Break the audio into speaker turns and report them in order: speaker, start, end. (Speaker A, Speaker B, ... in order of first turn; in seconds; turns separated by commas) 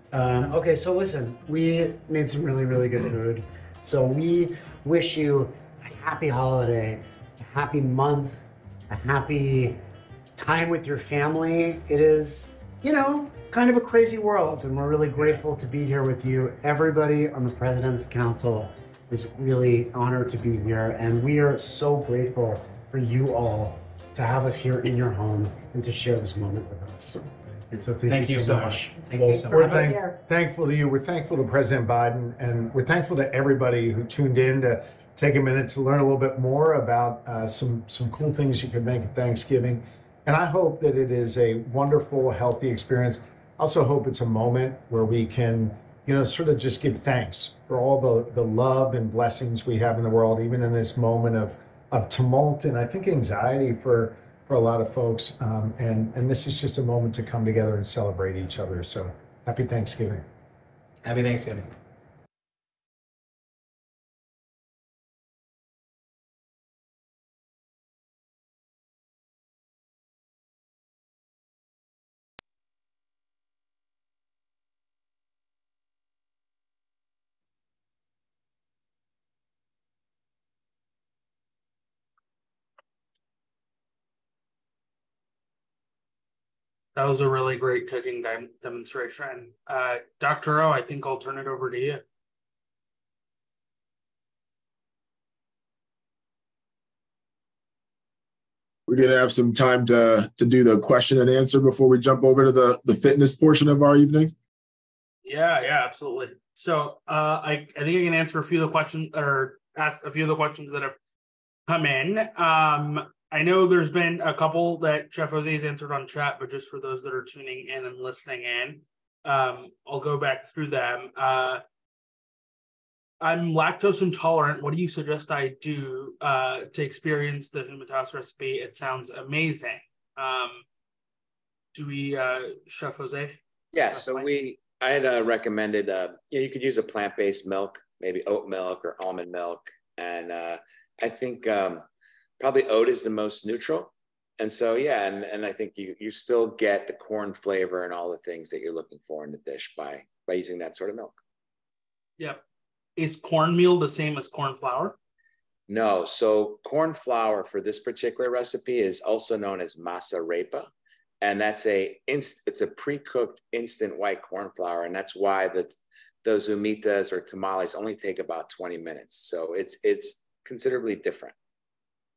Speaker A: 0.1-9.8, Speaker A: 10.3-30.0, Speaker B: 28.0-29.9, Speaker C: 29.5-60.2, Speaker B: 61.0-61.7, Speaker D: 87.0-92.0, Speaker E: 98.9-104.3, Speaker D: 105.2-111.0, Speaker D: 111.7-121.6, Speaker D: 123.2-130.6, Speaker D: 131.7-133.4, Speaker F: 133.7-141.8, Speaker D: 133.9-134.3, Speaker F: 142.4-151.2, Speaker D: 153.0-154.9, Speaker F: 155.7-160.7, Speaker F: 161.2-171.3